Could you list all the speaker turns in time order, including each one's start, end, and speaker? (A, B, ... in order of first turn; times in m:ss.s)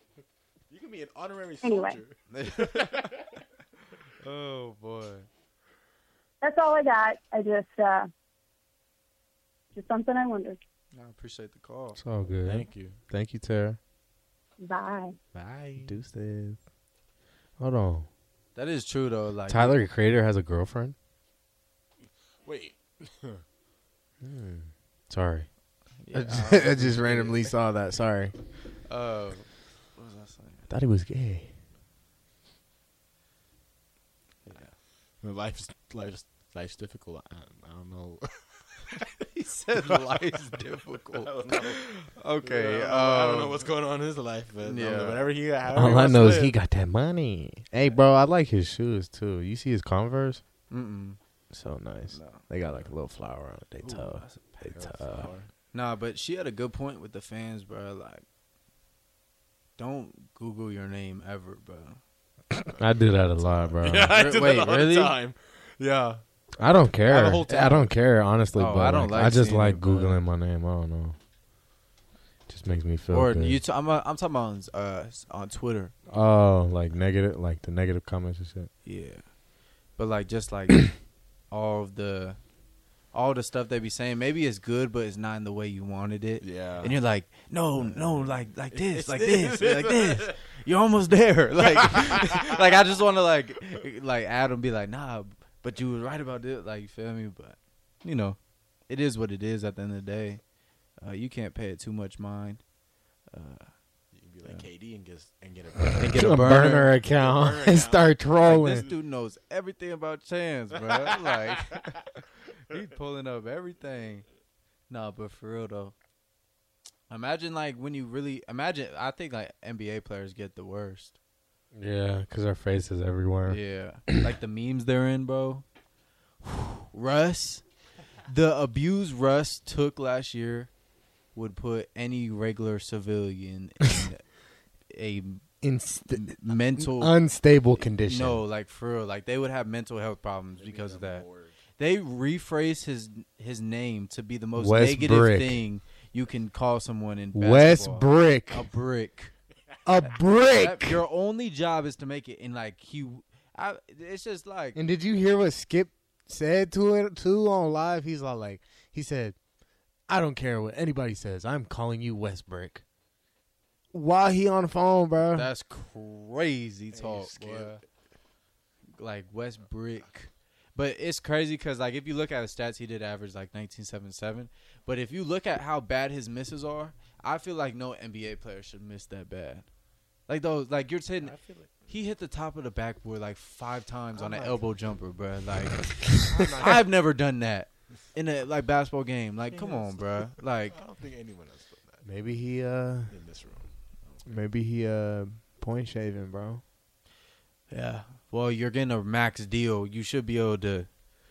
0:00.7-0:02.9 A
0:01.6-0:02.0 B
0:02.3-0:03.0 C
0:04.2-0:05.3 C
0:06.4-0:08.1 B
0:09.7-0:10.6 B
0:10.9-0:12.0 C
0:12.0-0:13.8 D
0:12.4-0:13.0 A
0:14.6-0:15.1 B
0:15.3-0:15.9 A
0:15.8-0:16.6 D
0:17.6-0:18.1 D
0:18.5-0:19.8 C
0:19.5-0:20.9 D
0:22.4-0:23.4 A
0:24.2-0:25.5 D
0:26.0-0:27.5 C
0:26.1-0:28.3 D
0:28.8-0:30.7 C
0:30.7-0:31.5 D
0:34.4-0:34.7 C
0:35.2-0:39.0 A
0:39.3-0:43.6 C
0:41.1-0:41.8 A
0:42.4-0:46.5 A
0:44.6-0:45.3 C
0:45.7-0:50.4 D
0:50.7-0:51.2 C
0:51.5-0:55.3 D
0:52.1-0:52.9 C
0:53.8-0:54.8 C
0:54.6-0:55.5 A
0:55.7-0:58.2 C
0:59.8-1:02.0 C
1:02.6-1:04.2 D
1:03.4-1:06.2 A
1:04.1-1:05.2 C
1:06.6-1:11.2 D
1:07.0-1:07.9 A
1:08.5-1:10.2 C
1:12.5-1:13.6 D
1:13.1-1:15.9 C
1:16.1-1:18.7 D
1:18.8-1:19.4 C
1:19.9-1:22.4 C
1:23.1-1:40.4 C
1:26.4-1:27.0 A
1:27.9-1:28.2 A
1:28.7-1:30.3 A
1:41.0-1:42.6 C
1:43.3-1:43.7 C
1:44.1-1:46.3 A
1:46.0-1:46.9 C
1:46.1-1:48.9 D
1:47.1-1:48.9 A
1:48.4-1:52.0 C
1:52.7-1:54.2 C
1:54.9-1:55.9 C
1:57.1-2:01.2 C
2:01.7-2:04.3 D
2:03.5-2:05.6 C
2:06.5-2:07.6 C
2:08.2-2:10.7 C
2:11.3-2:14.2 C
2:14.9-2:15.4 C
2:15.6-2:18.4 D
2:16.1-2:17.2 C
2:17.7-2:21.2 C
2:20.6-2:21.5 A
2:21.8-2:29.3 C
2:24.5-2:25.6 D
2:27.3-2:28.7 D
2:29.8-2:31.0 D
2:30.5-2:34.8 C
2:34.7-2:39.4 D
2:40.1-2:42.8 D
2:43.9-2:45.5 D
2:45.2-2:47.8 C
2:46.9-2:47.8 A
2:49.0-2:59.7 C
3:00.3-3:10.8 C
3:01.2-3:01.9 A
3:04.1-3:04.8 A
3:06.2-3:06.9 A
3:09.5-3:12.0 A
3:12.0-3:13.1 D
3:13.1-3:14.2 A
3:14.3-3:16.6 D
3:17.7-3:20.9 C